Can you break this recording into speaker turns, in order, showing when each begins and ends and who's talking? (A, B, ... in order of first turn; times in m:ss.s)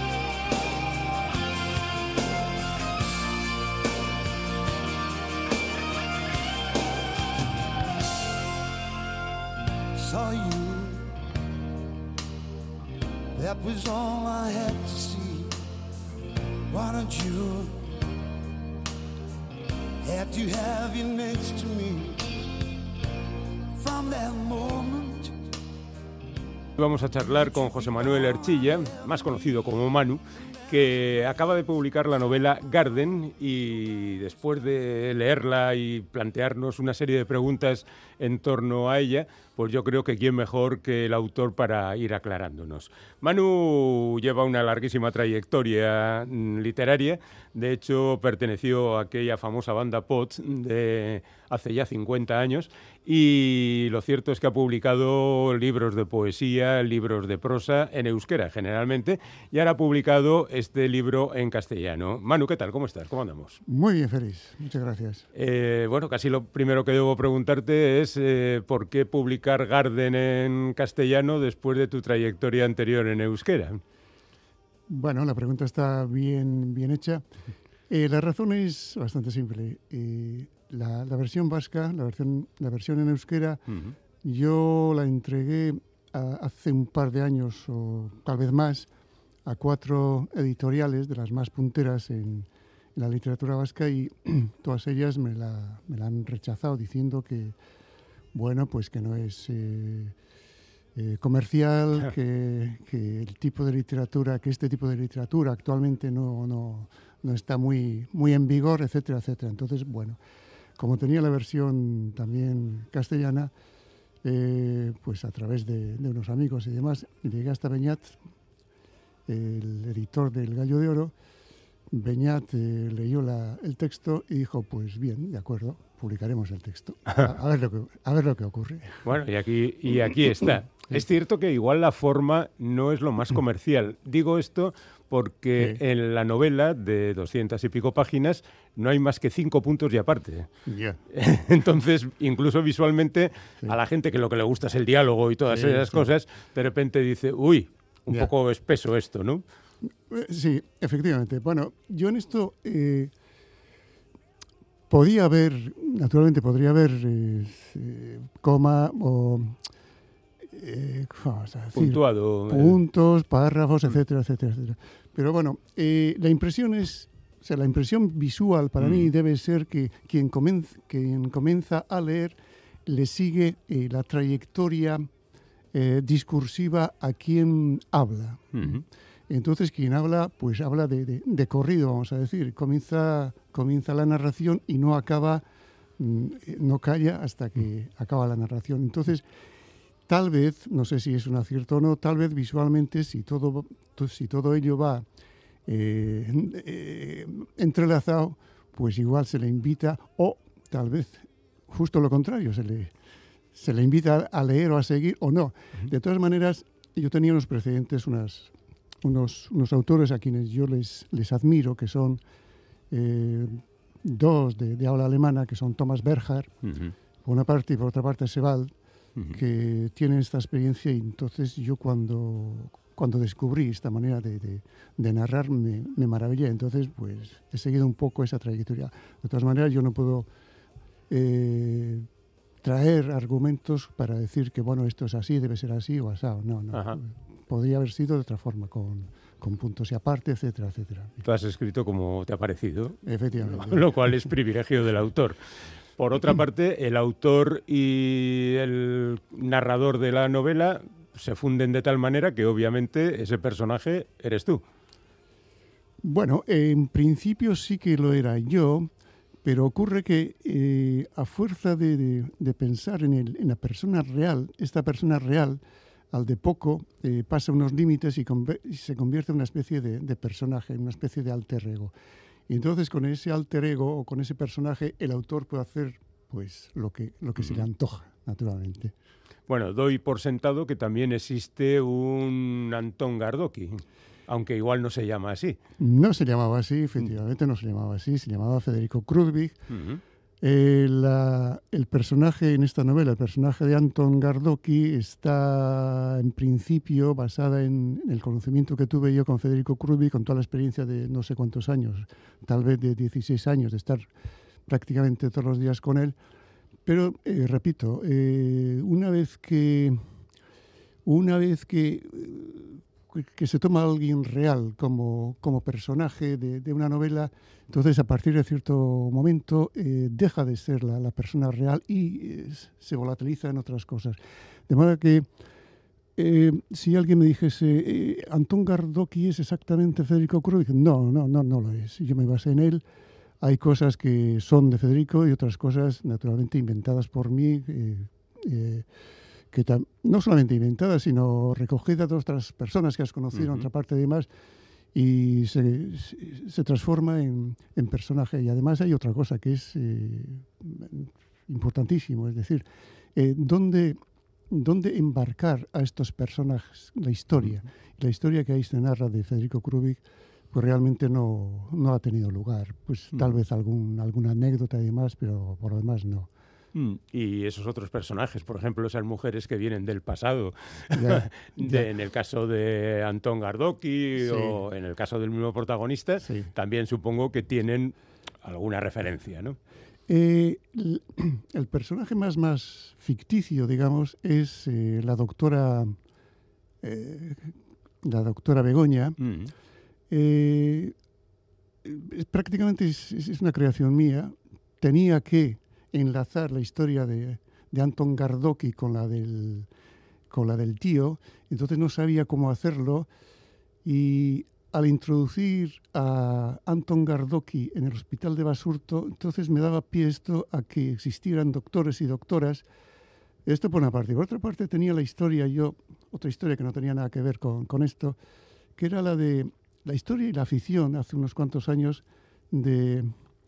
0:09.9-0:11.1 A
0:13.3-0:15.6 A
0:16.7-0:17.8 A
0:20.0-0:22.2 A
0:23.8-0:25.4 A
0:26.8-1:03.6 B
1:03.7-1:05.3 C
1:05.4-1:13.8 B
1:14.9-1:17.2 C
1:17.9-1:23.6 C
1:23.7-1:24.0 B
1:24.2-1:28.9 C
1:29.4-1:37.6 C
1:38.3-1:40.2 C
1:41.0-1:50.2 C
1:50.8-1:53.5 C
1:54.2-1:58.2 C
1:59.3-2:01.1 C
2:01.9-2:09.1 C
2:09.0-2:20.5 B
2:20.7-2:21.0 C
2:21.1-2:29.4 B
2:25.5-2:26.1 C
2:30.1-2:33.1 C
2:34.9-2:39.6 C
2:40.5-2:55.1 C
2:41.8-2:42.8 B
2:55.7-3:05.4 C
2:58.6-2:58.8 B
3:06.0-3:09.3 C
3:10.1-3:15.1 C
3:15.7-3:22.9 C
3:23.5-3:32.2 C
3:32.9-3:36.5 C
3:36.6-3:36.9 B
3:37.2-3:38.7 C
3:39.3-3:50.3 C
3:51.1-3:52.1 C
3:52.6-4:01.2 C
3:56.7-3:57.0 B
4:01.2-4:05.4 B
4:03.0-4:04.2 C
4:06.0-4:14.6 B
4:16.0-4:18.9 C
4:19.4-4:31.9 C
4:32.5-4:38.9 C
4:39.5-4:45.6 B
4:45.8-4:49.6 C
4:49.7-4:50.0 B
4:50.4-5:04.1 C
5:04.7-5:06.2 C
5:06.8-5:10.1 C
5:11.1-5:25.3 C
5:26.2-5:32.8 C
5:33.4-5:38.9 C
5:39.5-5:44.3 C
5:43.3-5:43.7 B
5:44.9-6:06.3 C
6:06.7-6:19.6 B
6:11.0-6:11.9 C
6:14.2-6:14.6 C
6:16.2-6:16.5 C
6:20.1-6:26.0 C
6:26.8-6:29.2 C
6:29.2-6:29.5 B
6:30.1-6:31.0 C
6:31.8-6:39.7 C
6:40.3-6:43.1 C
6:43.8-6:52.7 C
6:53.5-6:58.2 C
6:58.8-7:03.2 C